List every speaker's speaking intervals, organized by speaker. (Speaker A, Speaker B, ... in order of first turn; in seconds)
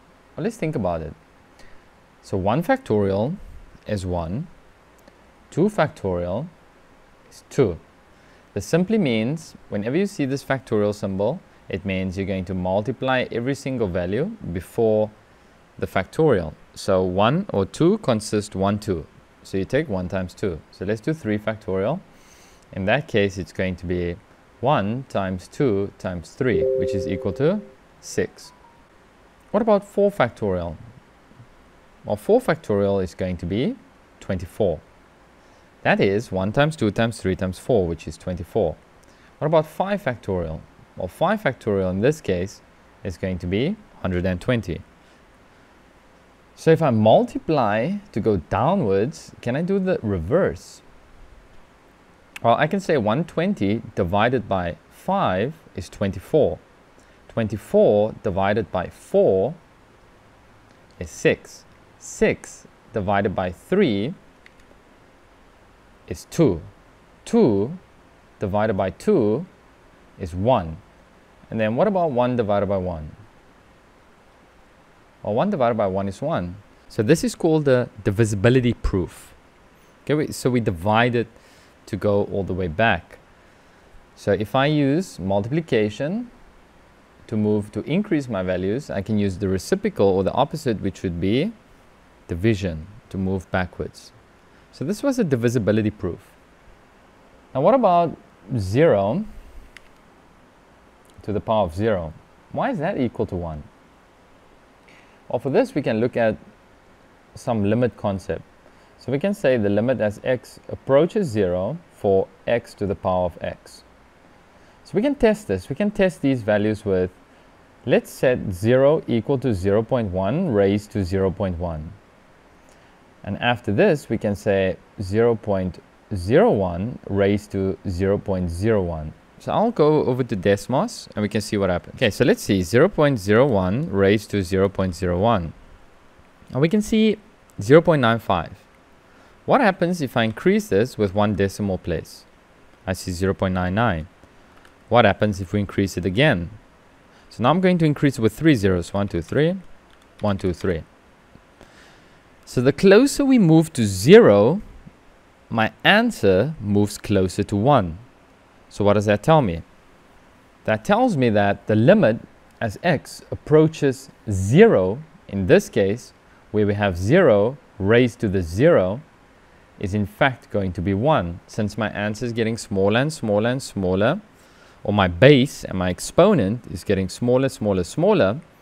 Speaker A: 0.4-1.1, 2.2-4.5, 5.5-6.5, 7.3-7.8, 8.5-15.1, 15.8-22.0, 22.7-28.5, 29.5-30.8, 32.0-34.8, 35.8-38.8, 39.4-44.8, 46.5-50.8, 52.4-56.6, 57.3-59.6, 61.0-64.2, 66.1-66.7, 67.2-67.8, 68.4-69.5, 70.2-70.8, 71.5-73.2, 75.2-79.4, 80.0-83.2, 84.2-86.3, 87.2-91.5, 92.3-94.1, 94.7-96.3, 97.5-99.3, 101.2-103.7, 105.3-106.4, 107.3-108.4, 109.0-113.8, 114.8-117.2, 117.8-122.0, 123.2-135.5, 136.5-138.6, 139.4-142.2, 142.8-144.1, 144.9-146.6, 147.3-149.6, 150.2-150.8, 152.4-154.6, 155.5-158.0, 158.7-159.6, 160.6-169.0, 169.8-174.2, 174.8-178.4